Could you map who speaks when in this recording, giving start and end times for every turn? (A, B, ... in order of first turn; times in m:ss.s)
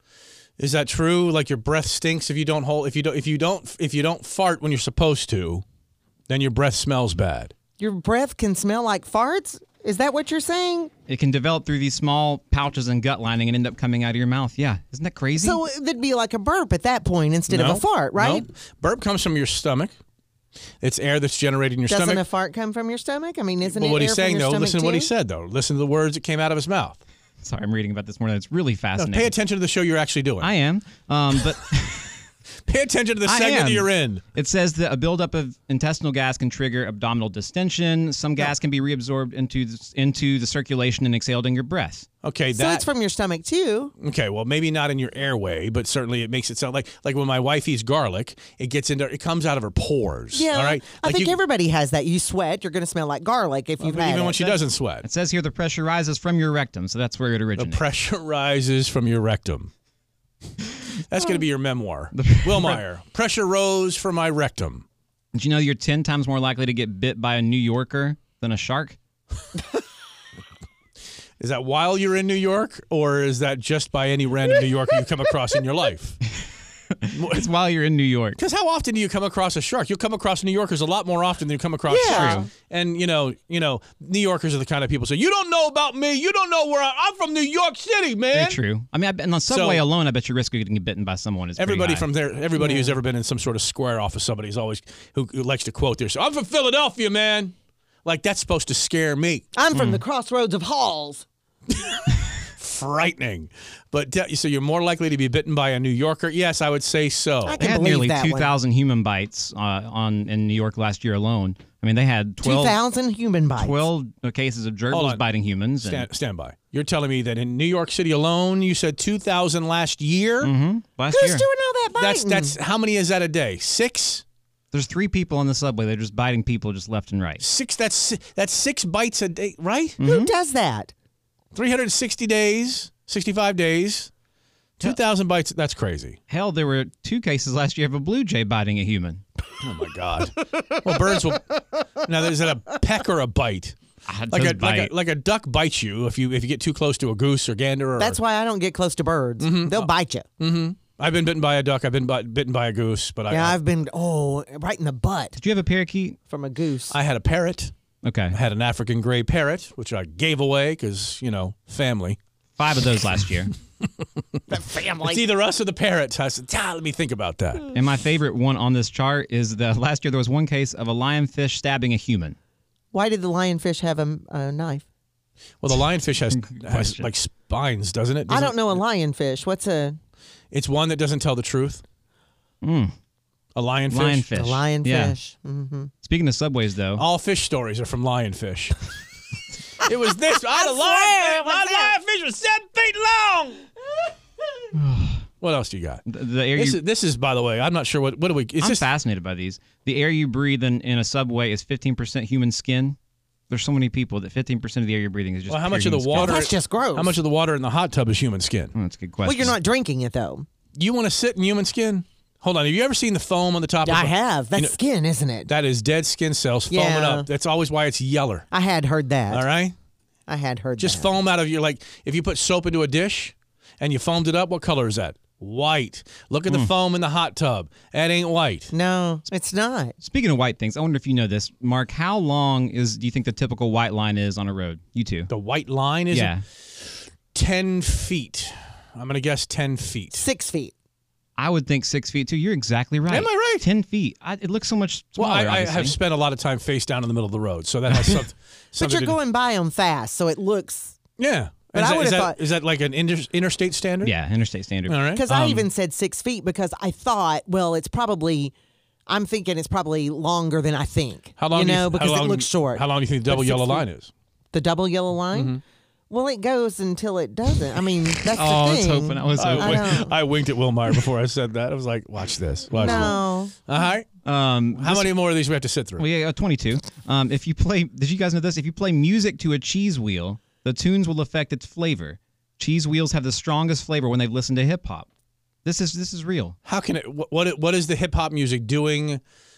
0:00.6-0:05.6 A
0:06.3-0:07.5 A
0:07.8-0:10.9 B
0:11.1-0:15.6 C
0:15.4-0:18.4 B
0:17.5-0:19.9 A
0:20.8-0:22.2 A
0:21.9-0:25.1 B
0:23.6-0:27.0 A
0:27.4-0:29.3 C
0:29.0-0:30.5 A
0:30.4-0:32.2 C
0:32.6-0:34.2 A
0:33.2-0:42.0 C
0:42.2-0:42.9 A
0:42.5-0:43.9 B
0:44.0-0:51.4 A
0:50.3-0:54.6 B
0:53.8-0:55.0 A
0:55.0-0:57.8 C
0:57.6-0:59.7 A
1:01.1-1:04.8 A
1:02.1-1:02.8 C
1:05.3-1:09.0 C
1:11.4-1:16.2 A
1:17.0-1:18.4 C
1:17.1-1:17.4 A
1:18.4-1:28.6 A
1:21.9-1:22.5 B
1:22.1-1:22.5 C
1:28.3-1:32.1 C
1:29.5-1:29.8 A
1:31.6-1:37.5 A
1:32.6-1:33.0 B
1:38.0-1:39.5 A
1:39.5-1:41.2 B
1:39.7-1:40.0 C
1:42.5-1:47.6 A
1:47.4-1:48.5 B
1:47.6-1:52.8 C
1:52.4-1:53.9 B
1:53.6-1:56.1 C
1:54.9-1:55.2 A
1:55.8-2:00.5 A
2:00.4-2:01.4 C
2:01.1-2:02.5 B
2:02.0-2:04.2 A
2:04.7-2:07.4 C
2:07.4-2:10.0 A
2:10.0-2:10.3 C
2:10.0-2:10.9 B
2:11.5-2:14.1 A
2:14.8-2:16.2 A
2:16.3-2:19.2 C
2:19.6-2:23.8 A
2:24.1-2:24.9 C
2:24.3-2:28.2 A
2:28.0-2:30.2 B
2:29.4-2:33.6 A
2:33.3-2:35.4 B
2:35.4-2:36.2 C
2:36.3-2:37.0 B
2:36.9-2:37.7 A
2:38.0-2:38.3 C
2:38.3-2:42.2 A
2:42.6-2:43.5 C
2:44.5-2:45.2 B
2:45.0-2:47.7 A
2:47.7-2:52.4 C
2:52.9-2:54.8 B
2:55.6-2:58.8 A
2:56.1-2:57.1 C
2:58.3-3:00.0 B
3:00.5-3:01.8 A
3:02.6-3:02.9 C
3:03.5-3:04.3 A
3:03.9-3:05.2 C
3:04.3-3:05.9 B
3:06.0-3:07.0 C
3:07.0-3:08.9 A
3:09.8-3:13.6 A
3:10.6-3:11.9 B
3:14.7-3:15.2 C
3:15.4-3:16.0 A
3:16.0-3:16.8 C
3:16.5-3:18.8 A
3:18.6-3:23.0 C
3:23.5-3:26.4 C
3:25.5-3:28.7 A
3:26.2-3:27.2 B
3:28.7-3:29.6 C
3:29.2-3:30.4 B
3:30.8-3:34.8 A
3:33.8-3:35.5 B
3:35.4-3:38.5 A
3:36.7-3:37.3 B
3:38.5-3:39.5 B
3:39.3-3:39.7 A
3:40.3-3:41.1 B
3:40.8-3:48.7 A
3:48.7-3:49.9 B
3:50.0-3:55.3 C
3:55.3-3:56.3 A
3:56.1-3:56.4 C
3:57.3-4:00.3 A
4:00.1-4:00.7 B
4:01.4-4:06.0 C
4:03.1-4:03.7 A
4:05.2-4:09.2 A
4:08.7-4:11.0 B
4:11.2-4:14.1 A
4:11.7-4:12.4 B
4:14.0-4:15.0 C
4:14.9-4:15.7 A
4:15.1-4:18.5 B
4:19.1-4:23.8 B
4:21.4-4:24.1 A
4:24.5-4:25.6 B
4:25.3-4:25.6 A
4:26.1-4:30.1 B
4:28.2-4:30.0 C
4:29.4-4:34.1 A
4:32.7-4:33.5 B
4:32.8-4:33.1 C
4:34.2-4:35.1 C
4:34.8-4:36.0 A
4:36.0-4:45.1 C
4:45.6-4:46.6 C
4:46.6-4:49.2 A